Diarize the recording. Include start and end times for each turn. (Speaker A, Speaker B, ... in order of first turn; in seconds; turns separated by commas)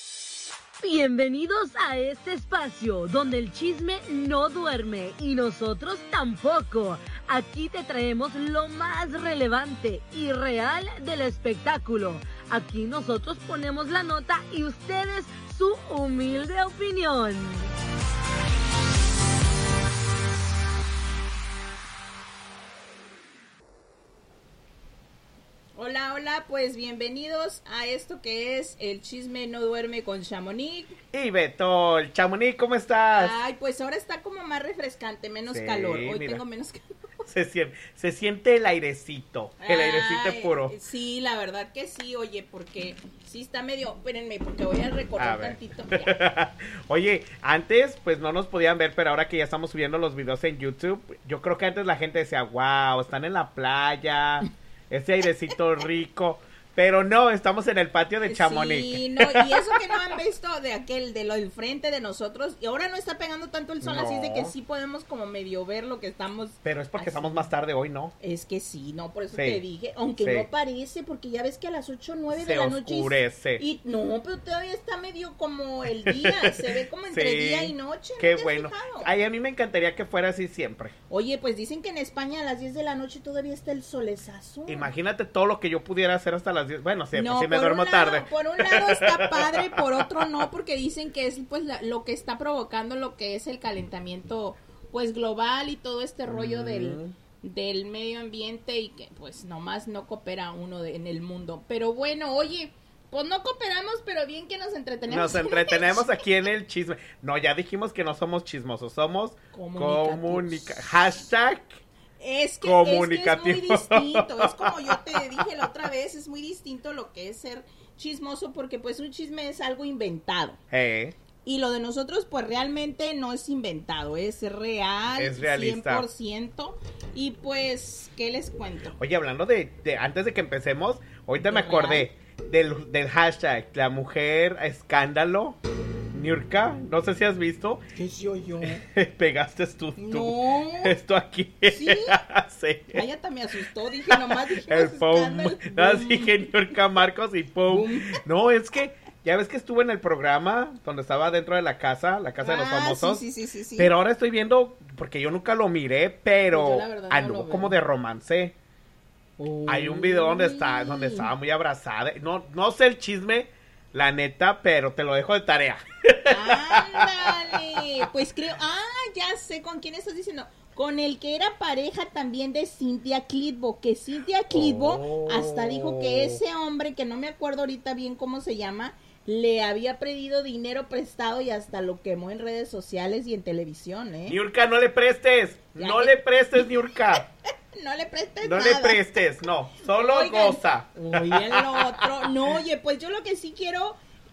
Speaker A: 0.8-17.7, Speaker B: 25.8-31.0, Speaker C: 31.1-33.4, Speaker B: 33.1-36.8, Speaker C: 35.5-36.4, Speaker C: 37.2-40.8, Speaker B: 39.6-46.1, Speaker C: 45.2-60.1, Speaker B: 58.3-67.5, Speaker C: 63.8-64.5, Speaker C: 66.6-68.1, Speaker B: 68.2-79.1, Speaker C: 69.3-69.6, Speaker C: 70.2-70.5, Speaker C: 72.3-73.6, Speaker C: 76.0-81.0, Speaker B: 81.1-84.9, Speaker C: 84.7-90.4, Speaker B: 87.1-106.2, Speaker C: 96.3-97.2, Speaker C: 105.1-111.8, Speaker B: 109.5-111.3, Speaker B: 112.2-120.6, Speaker C: 112.6-115.4, Speaker C: 120.7-121.2, Speaker B: 121.4-128.9, Speaker C: 125.2-126.1, Speaker C: 129.0-135.6, Speaker B: 131.4-132.1, Speaker C: 136.1-137.8, Speaker B: 137.9-138.8, Speaker C: 138.6-143.0, Speaker B: 140.0-141.0, Speaker B: 141.7-142.2, Speaker B: 142.9-146.4, Speaker C: 144.1-153.2, Speaker B: 147.7-148.2, Speaker B: 152.4-153.9, Speaker C: 153.8-158.6, Speaker B: 156.5-157.8, Speaker B: 159.4-161.3, Speaker C: 159.7-167.8, Speaker B: 166.3-184.4, Speaker C: 174.5-176.4, Speaker C: 184.3-187.3, Speaker B: 185.8-186.2, Speaker B: 187.8-189.0, Speaker C: 188.4-192.3, Speaker B: 189.9-194.0